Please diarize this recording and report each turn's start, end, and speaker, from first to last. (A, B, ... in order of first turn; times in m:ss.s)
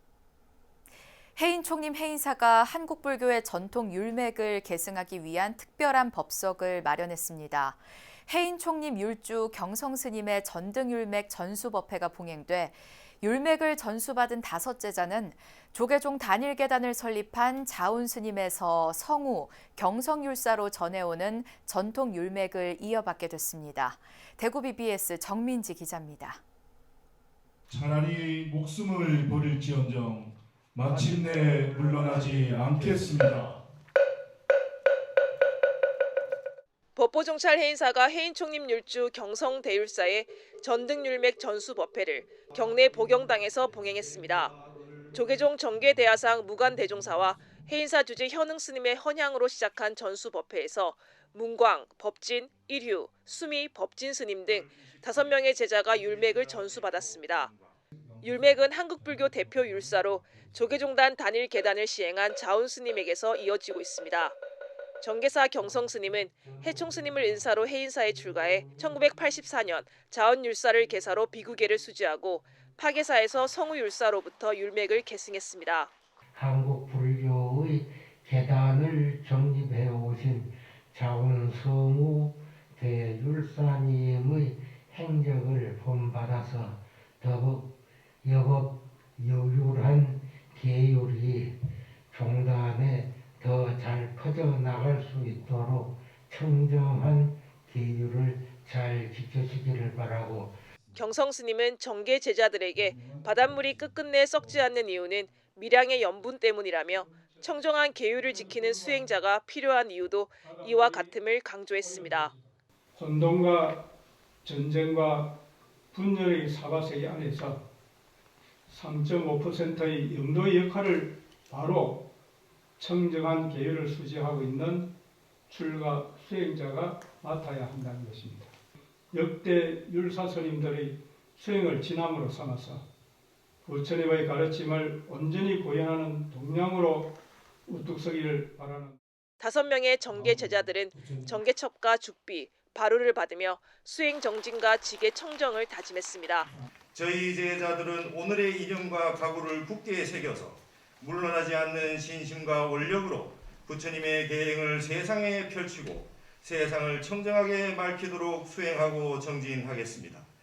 0:01.4-0:26.4 A
0:27.7-0:33.6 B
0:30.8-0:33.4 C
0:37.0-0:44.6 D
0:44.7-0:45.1 C
0:45.1-0:57.5 D
0:54.7-0:55.3 E
0:55.9-0:57.7 E
0:58.2-1:04.4 D
1:05.0-1:15.9 D
1:08.3-1:08.8 F
1:16.4-1:27.7 F
1:28.2-1:31.6 F
1:32.1-1:40.6 F
1:41.0-1:52.3 D
1:46.9-1:49.2 C
1:50.4-1:51.1 C
1:51.8-1:53.8 C
1:54.4-1:55.3 C
1:55.9-1:57.6 C
1:58.7-2:02.0 C
2:02.8-2:04.9 C
2:05.5-2:08.5 C
2:09.1-2:12.8 C
2:13.6-2:17.1 C
2:17.7-2:19.0 C
2:19.4-2:26.5 D
2:20.2-2:21.3 C
2:26.9-2:40.3 E